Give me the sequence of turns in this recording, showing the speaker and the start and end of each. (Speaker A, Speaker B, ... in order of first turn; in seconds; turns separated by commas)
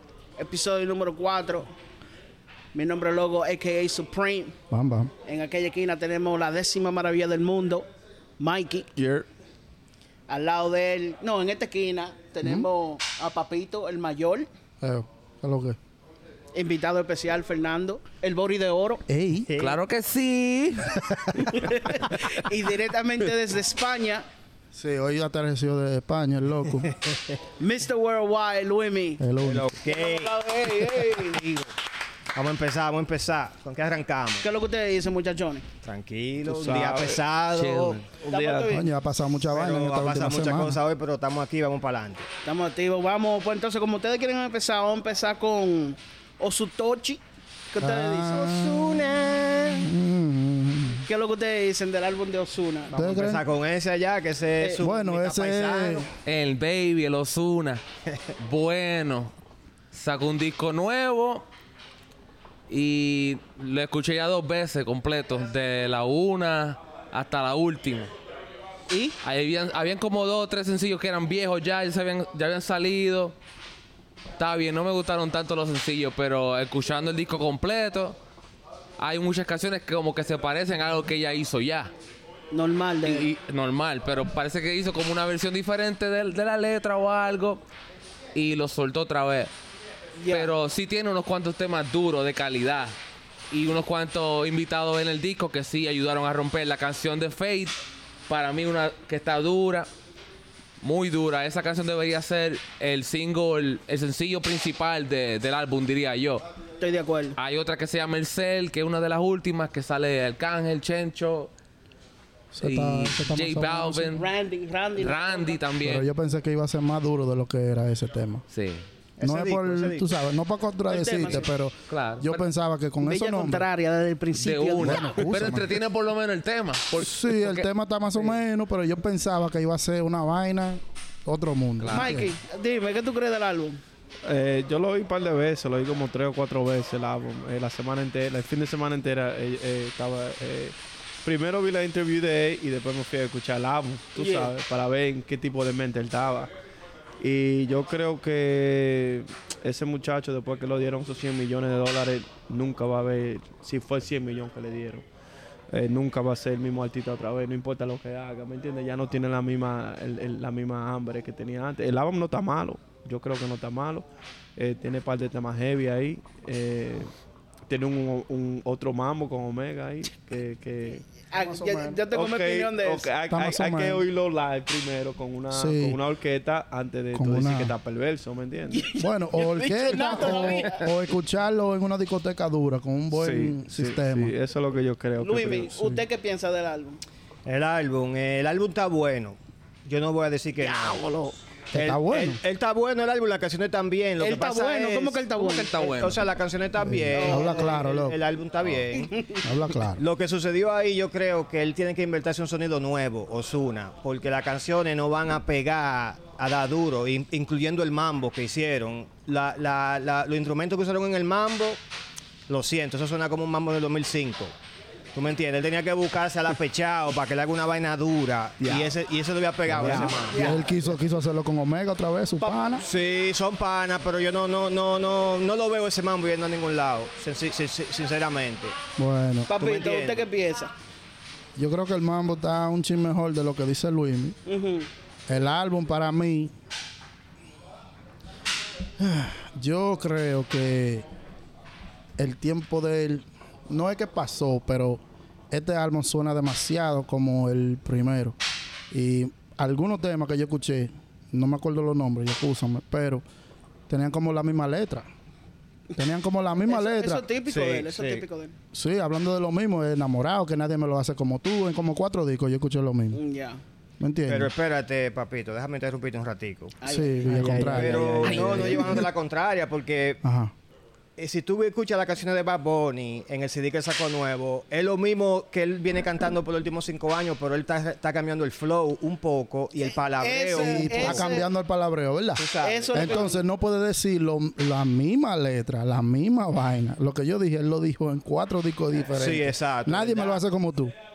Speaker A: 0.4-1.7, Speaker A: 2.7-4.5, Speaker B: 4.7-5.1, Speaker A: 5.2-7.9, Speaker A: 8.4-8.9, Speaker C: 8.9-9.3, Speaker A: 10.3-14.5, Speaker B: 14.8-15.8, Speaker A: 16.5-19.0, Speaker B: 19.1-19.5, Speaker D: 19.4-19.8, Speaker E: 19.6-21.6, Speaker A: 21.5-24.2, Speaker B: 24.7-26.9, Speaker D: 26.9-27.3, Speaker A: 27.6-29.2, Speaker B: 29.2-29.6, Speaker D: 29.4-31.7, Speaker A: 29.8-31.4, Speaker D: 32.3-34.4, Speaker A: 34.4-35.7, Speaker D: 35.8-38.0, Speaker C: 36.4-37.2, Speaker E: 37.5-38.1, Speaker C: 38.2-38.8, Speaker A: 38.3-38.9, Speaker B: 38.7-40.8, Speaker D: 39.5-42.3, Speaker A: 42.4-47.2, Speaker A: 47.7-48.4, Speaker B: 47.8-51.0, Speaker D: 48.1-49.9, Speaker A: 51.0-52.9, Speaker D: 52.9-56.1, Speaker B: 52.9-53.4, Speaker B: 54.8-56.0, Speaker E: 56.2-57.8, Speaker E: 58.4-59.3, Speaker E: 59.9-61.4, Speaker E: 62.7-68.1, Speaker A: 68.9-69.2, Speaker E: 69.2-73.3, Speaker E: 74.4-78.2, Speaker E: 79.0-81.9, Speaker A: 82.5-83.3, Speaker E: 83.0-87.6, Speaker E: 88.3-89.5, Speaker A: 90.2-90.5, Speaker E: 90.3-92.9, Speaker E: 93.5-99.9, Speaker E: 100.8-106.4, Speaker A: 106.8-107.4, Speaker E: 107.4-111.5, Speaker B: 112.5-114.2, Speaker E: 112.6-114.3, Speaker A: 114.1-115.6, Speaker E: 114.9-116.0, Speaker B: 115.8-118.4, Speaker E: 118.5-118.8, Speaker D: 119.2-120.1, Speaker B: 119.2-123.7, Speaker A: 120.9-121.5, Speaker E: 121.9-122.4, Speaker A: 123.0-125.2, Speaker E: 124.3-127.7, Speaker B: 124.8-125.8, Speaker B: 127.0-132.3, Speaker E: 131.8-132.2, Speaker A: 131.9-133.8, Speaker C: 134.2-146.5, Speaker A: 144.2-144.5, Speaker C: 147.2-155.0, Speaker C: 155.7-164.1, Speaker C: 164.6-167.1, Speaker C: 167.7-171.0, Speaker A: 171.3-173.1, Speaker B: 171.3-172.0, Speaker C: 172.1-178.9, Speaker B: 173.3-174.0, Speaker B: 175.5-176.0, Speaker B: 177.1-177.7, Speaker A: 178.7-180.9, Speaker B: 179.0-184.3, Speaker C: 183.1-185.7, Speaker A: 185.2-187.0, Speaker B: 185.7-186.0, Speaker D: 187.4-191.0, Speaker A: 190.6-191.3, Speaker B: 191.7-192.4, Speaker D: 191.7-199.3, Speaker A: 194.2-195.7, Speaker E: 195.3-196.2, Speaker B: 196.8-198.2, Speaker A: 197.1-197.8, Speaker A: 198.9-199.5, Speaker B: 199.4-200.0, Speaker D: 199.9-211.8, Speaker D: 212.5-214.5, Speaker D: 215.1-220.7, Speaker C: 218.6-219.0, Speaker C: 219.7-220.3, Speaker B: 219.7-222.8, Speaker A: 220.2-220.8, Speaker D: 222.8-228.7, Speaker B: 229.0-229.5, Speaker A: 229.5-230.7, Speaker D: 229.5-230.2, Speaker B: 231.6-234.4, Speaker A: 234.4-234.9, Speaker B: 235.3-236.5, Speaker B: 239.0-241.0, Speaker B: 242.2-248.3, Speaker B: 248.9-253.2, Speaker B: 253.9-255.1, Speaker B: 255.9-257.2, Speaker A: 256.6-258.5, Speaker D: 257.5-258.2, Speaker B: 258.7-263.2, Speaker A: 263.1-263.6, Speaker B: 264.0-264.5, Speaker D: 264.3-266.8, Speaker A: 266.8-267.7, Speaker B: 266.9-269.1, Speaker C: 267.3-268.9, Speaker D: 267.4-270.2, Speaker B: 270.2-270.5, Speaker D: 271.2-281.3, Speaker A: 279.9-281.5, Speaker B: 280.5-290.9, Speaker D: 282.4-283.3, Speaker A: 282.6-283.4, Speaker D: 289.0-290.4